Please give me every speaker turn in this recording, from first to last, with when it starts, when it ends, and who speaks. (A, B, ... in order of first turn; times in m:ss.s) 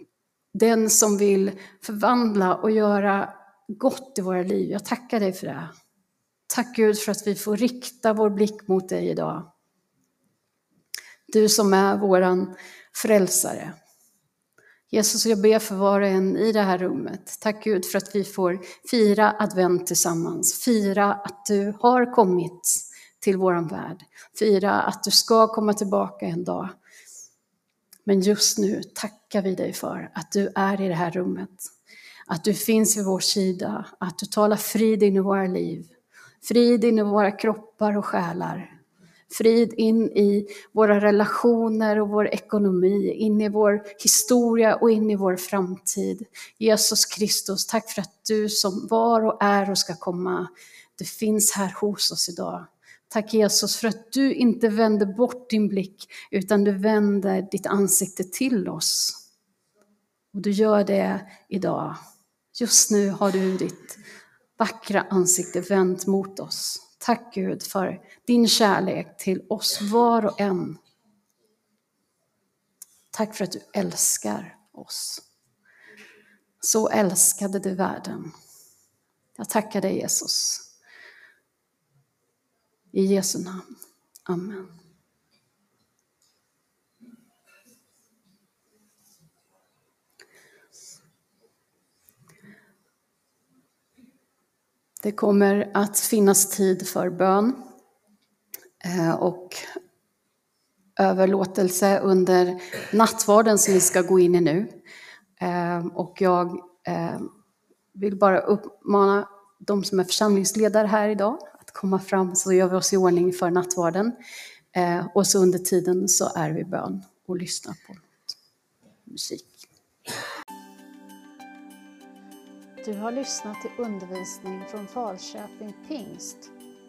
0:00.5-0:05.7 A
0:06.5-0:09.5 A
0:11.3-0:13.7 A
0:14.9-0:26.7 A
0:28.1-0:31.7 A
0:32.3-0:35.9 A
0:36.4-0:38.7 A
0:39.3-0:59.2 A
1:00.3-1:02.0 A
1:02.6-1:04.0 A
1:04.6-1:10.8 A
1:13.1-1:15.2 A
1:16.6-1:18.3 A
1:19.4-1:20.7 A
1:22.9-1:23.7 A
1:24.3-1:24.7 A
1:35.0-1:37.6 A
1:38.8-1:39.6 A
1:41.0-1:44.8 A
1:45.4-1:47.3 A
1:48.0-1:54.2 A
1:54.8-1:58.4 A
1:59.1-1:59.7 A
2:02.8-2:06.5 A